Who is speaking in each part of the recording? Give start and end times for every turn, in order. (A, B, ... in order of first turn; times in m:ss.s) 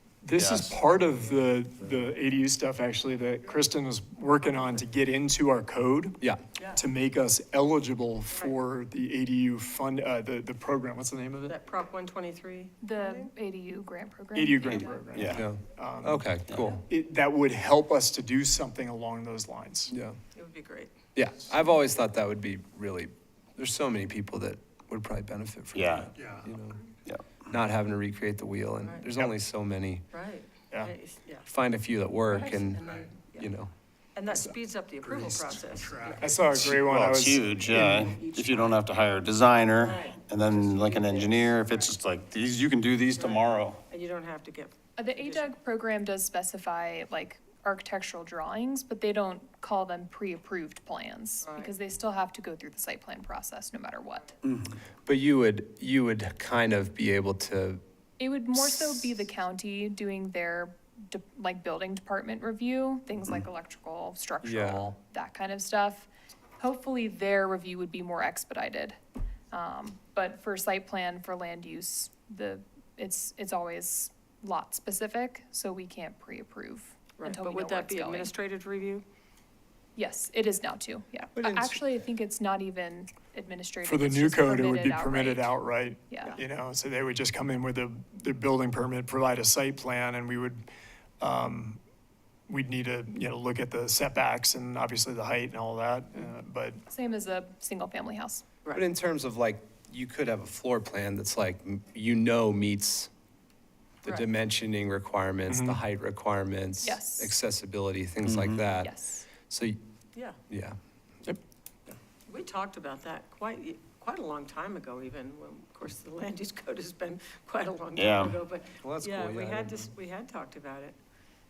0:00.2-0:06.2 A
0:00.3-0:00.8 B
0:06.8-0:11.6 A
0:11.5-0:13.3 C
0:12.8-0:15.3 D
0:14.3-0:19.9 A
0:14.7-0:15.4 B
0:15.3-0:16.8 E
0:19.9-0:20.2 E
0:20.4-0:20.9 C
0:21.2-0:26.8 E
0:25.8-0:26.1 B
0:27.5-0:30.0 E
0:30.1-0:31.5 C
0:31.5-0:33.7 E
0:32.3-0:33.5 C
0:34.2-0:36.4 C
0:35.0-0:38.7 A
0:36.5-0:43.8 B
0:37.7-0:38.7 C
0:39.8-0:42.0 C
0:43.1-0:45.5 C
0:45.0-0:54.4 D
0:51.4-0:51.7 C
0:55.1-0:57.8 E
0:58.2-1:09.0 D
1:04.4-1:04.9 E
1:09.5-1:18.3 D
1:17.2-1:19.0 C
1:20.0-1:26.4 D
1:21.4-1:21.7 E
1:23.8-1:30.6 A
1:31.2-1:31.8 A
1:32.5-1:36.8 A
1:36.9-1:38.5 D
1:38.7-1:43.1 E
1:44.0-1:49.8 E
1:45.5-1:45.8 A
1:46.8-1:47.4 D
1:48.3-1:48.6 B
1:48.7-1:49.3 D
1:50.5-1:50.8 E
1:52.3-2:01.0 C
1:58.0-1:58.4 B
1:58.8-1:59.9 E